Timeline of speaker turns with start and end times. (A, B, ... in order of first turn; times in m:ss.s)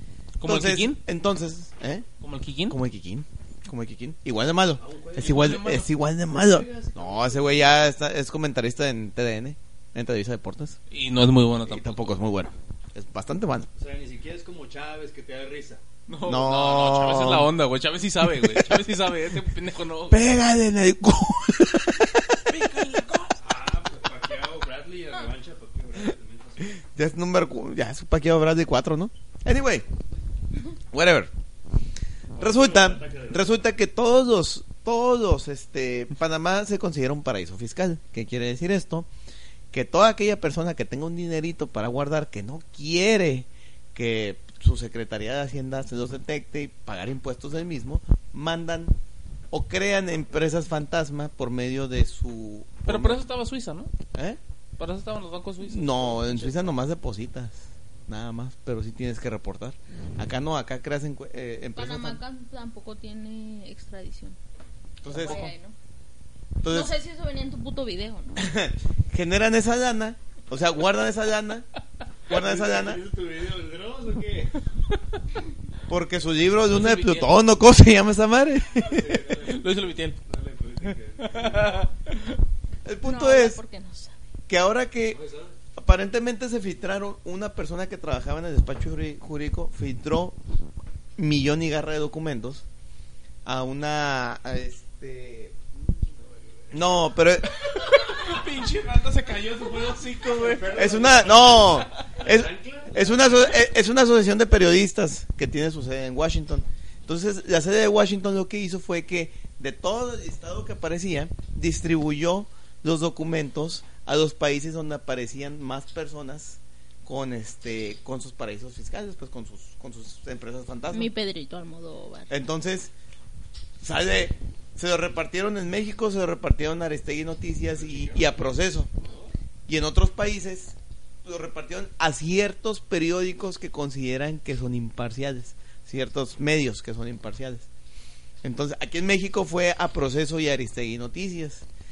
0:00.4-0:01.0 A
0:00.4-0:02.0 B
0:02.2-0:02.8 A
0:02.7-0:10.8 B
0:04.8-0:05.6 C
0:05.2-0:05.9 A
0:06.3-0:07.8 C
0:10.9-0:12.2 A
0:11.6-0:13.7 B
0:13.8-0:15.8 C
0:16.1-0:20.2 A
0:16.2-0:17.5 B
0:18.3-0:18.7 B
0:20.1-0:22.5 B
0:22.5-0:23.4 A
0:23.4-0:26.8 C
0:26.8-0:29.8 B
0:30.9-0:31.3 B
0:32.3-0:33.5 C
0:32.4-0:39.1 B
0:39.7-0:49.0 B
0:49.5-0:53.2 B
0:52.8-0:53.9 A
0:54.1-0:54.4 B
0:54.8-0:56.7 A
0:55.6-1:02.2 B
1:01.7-1:04.4 D
1:05.0-1:05.5 B
1:05.1-1:05.8 D
1:05.2-1:05.5 A
1:06.6-1:06.9 B
1:06.7-1:08.5 D
1:08.4-1:11.6 B
1:12.3-1:13.0 B
1:12.3-1:14.5 C
1:15.9-1:19.3 B
1:16.7-1:17.4 A
1:18.8-1:19.7 C
1:19.4-1:20.2 A
1:20.2-1:21.8 C
1:21.2-1:22.3 A
1:22.8-1:23.6 B
1:23.0-1:24.2 D
1:24.5-1:25.2 B
1:25.1-1:25.5 C
1:25.8-1:30.4 B
1:31.2-1:32.6 B
1:33.4-1:35.5 B
1:36.1-1:36.8 C
1:36.7-1:37.7 B
1:37.8-1:40.9 A
1:40.2-1:43.2 C
1:40.7-2:01.1 B
2:00.9-2:02.3 D
2:02.3-2:02.9 B
2:03.8-2:08.9 B
2:07.8-2:08.4 C
2:09.0-2:09.3 C
2:09.7-2:17.7 B
2:18.4-2:21.6 B